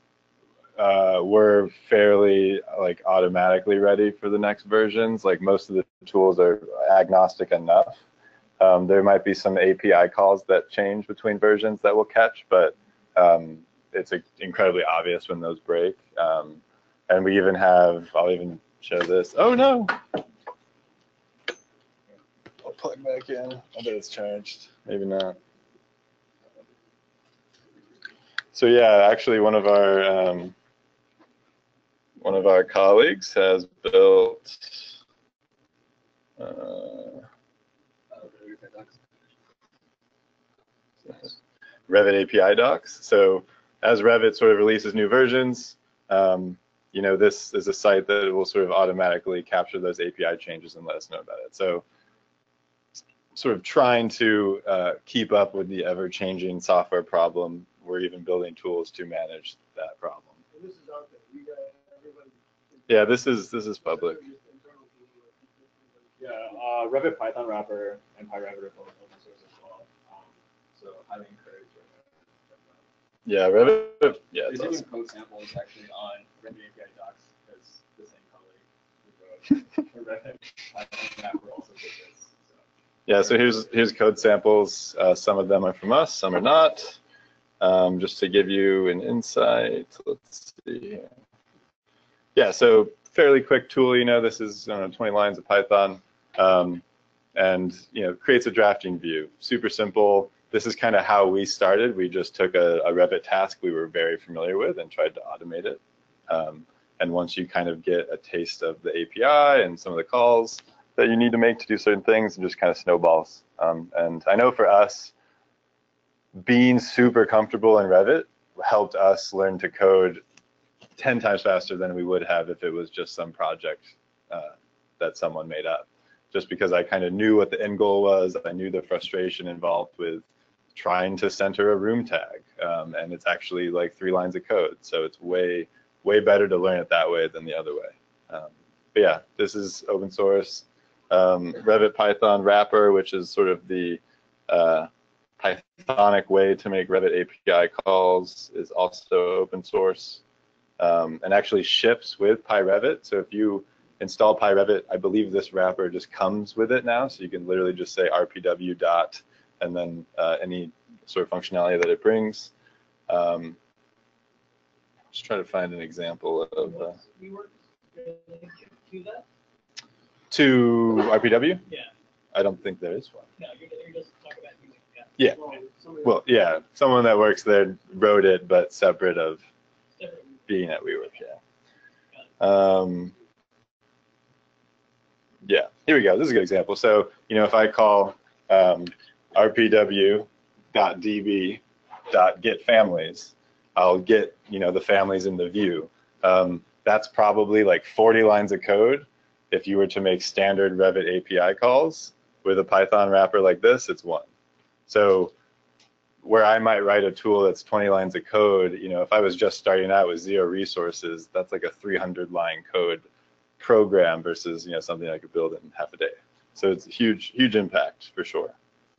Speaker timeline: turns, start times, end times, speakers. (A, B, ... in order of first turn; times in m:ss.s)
0:00.8-0:08.0 A
0:08.6-0:20.2 A
0:22.6-0:25.4 A
0:28.5-0:30.5 A
0:32.2-0:34.9 A
0:36.4-0:37.2 A
0:38.1-0:39.0 B
0:41.9-0:51.8 A
0:53.3-1:00.4 A
1:00.5-1:06.6 C
1:02.9-1:04.2 A
1:06.2-1:12.8 B
1:13.2-1:14.8 A
1:14.3-1:22.6 B
1:23.0-1:27.0 A
1:27.6-1:31.1 A
1:32.3-1:36.8 A
1:37.4-1:55.1 A
1:56.3-2:00.2 A
2:01.0-2:30.2 A
2:30.8-2:42.5 A
2:43.1-2:43.6 A
2:45.1-2:47.0 A
2:46.6-2:49.2 D
2:50.3-2:51.6 A
2:51.6-2:51.9 D
2:52.3-2:53.2 A
2:53.4-2:55.3 D
2:55.2-2:56.3 C
2:56.0-2:59.4 A
3:00.0-3:00.6 D
3:00.5-3:01.4 A
3:02.4-3:03.1 A
3:05.4-3:24.2 A
3:24.9-3:25.3 A
3:26.2-3:33.0 A
3:33.6-3:38.6 A